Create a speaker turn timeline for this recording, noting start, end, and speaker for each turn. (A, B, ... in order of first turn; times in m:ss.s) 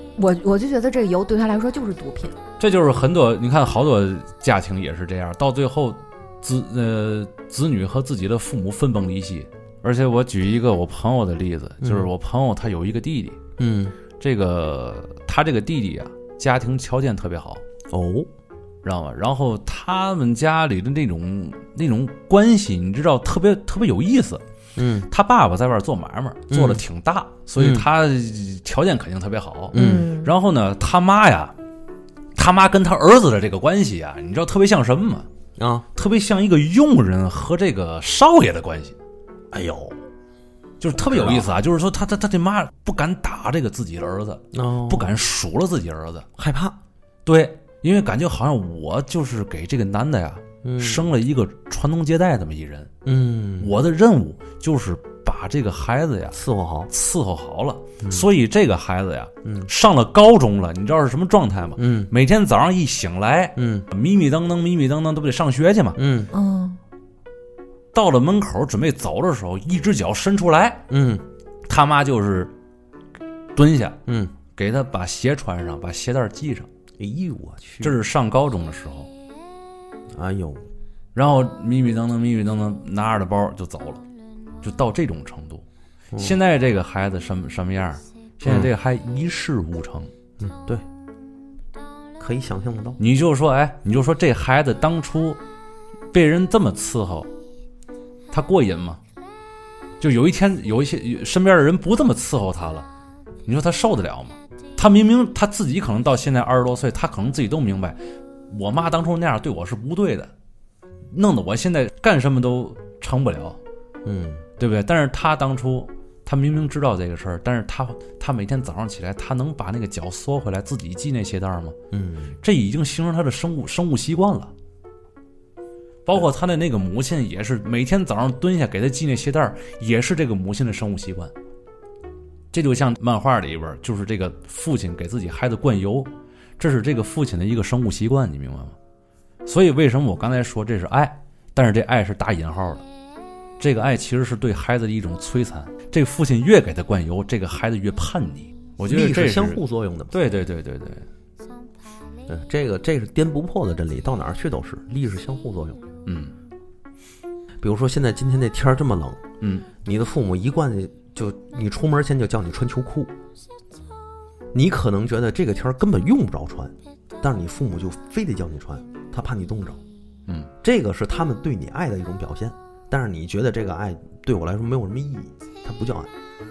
0:00.2-0:02.4 A
0:02.6-0:13.4 B
0:11.8-0:12.1 C
0:13.6-0:14.0 C
0:14.2-0:17.6 B
0:17.9-0:18.3 C
0:18.8-0:24.4 B
0:24.8-0:25.1 C
0:25.1-0:31.6 B
0:26.5-0:26.8 C
0:27.6-0:27.9 C
0:29.7-0:30.1 C
0:29.7-0:30.3 A
0:32.4-0:35.3 B
0:35.6-0:35.9 C
0:36.0-0:39.0 B
0:39.5-0:40.0 C
0:40.8-0:46.3 B
0:40.9-0:41.5 C
0:44.5-0:45.2 C
0:46.4-0:46.8 C
0:47.3-0:52.9 B
0:50.6-0:51.0 C
0:53.0-0:53.8 C
0:53.6-0:56.4 B
0:56.3-0:56.9 C
0:56.9-1:06.0 B
0:58.0-0:58.3 C
0:59.4-0:59.7 C
1:01.8-1:02.1 C
1:03.6-1:03.9 C
1:06.0-1:06.3 C
1:06.3-1:06.8 A
1:07.9-1:10.8 B
1:10.9-1:11.2 C
1:11.7-1:12.5 B
1:13.6-1:14.0 B
1:14.1-1:14.4 C
1:14.6-1:16.7 B
1:17.0-1:18.0 C
1:17.8-1:19.1 B
1:20.1-1:20.7 C
1:21.2-1:24.0 B
1:24.6-1:25.6 B
1:26.2-1:30.1 B
1:30.4-1:30.8 C
1:32.2-1:33.0 C
1:33.0-1:35.4 B
1:36.1-1:37.3 B
1:38.3-1:39.0 B
1:40.0-1:42.9 B
1:43.5-1:48.0 B
1:48.5-1:50.3 B
1:51.1-1:53.6 B
1:54.0-1:54.4 C
1:54.6-2:01.8 B
2:01.9-2:02.4 C
2:02.4-2:04.5 B
2:06.1-2:11.3 B
2:12.5-2:18.8 B
2:19.4-2:22.8 B
2:23.6-2:29.6 B
2:28.9-2:30.2 C
2:30.1-2:31.1 B
2:32.3-2:35.8 C
2:36.1-2:36.3 B
2:37.6-2:39.2 C
2:39.4-2:39.7 B
2:39.8-2:43.1 C
2:44.5-2:49.8 C
2:50.6-2:56.1 C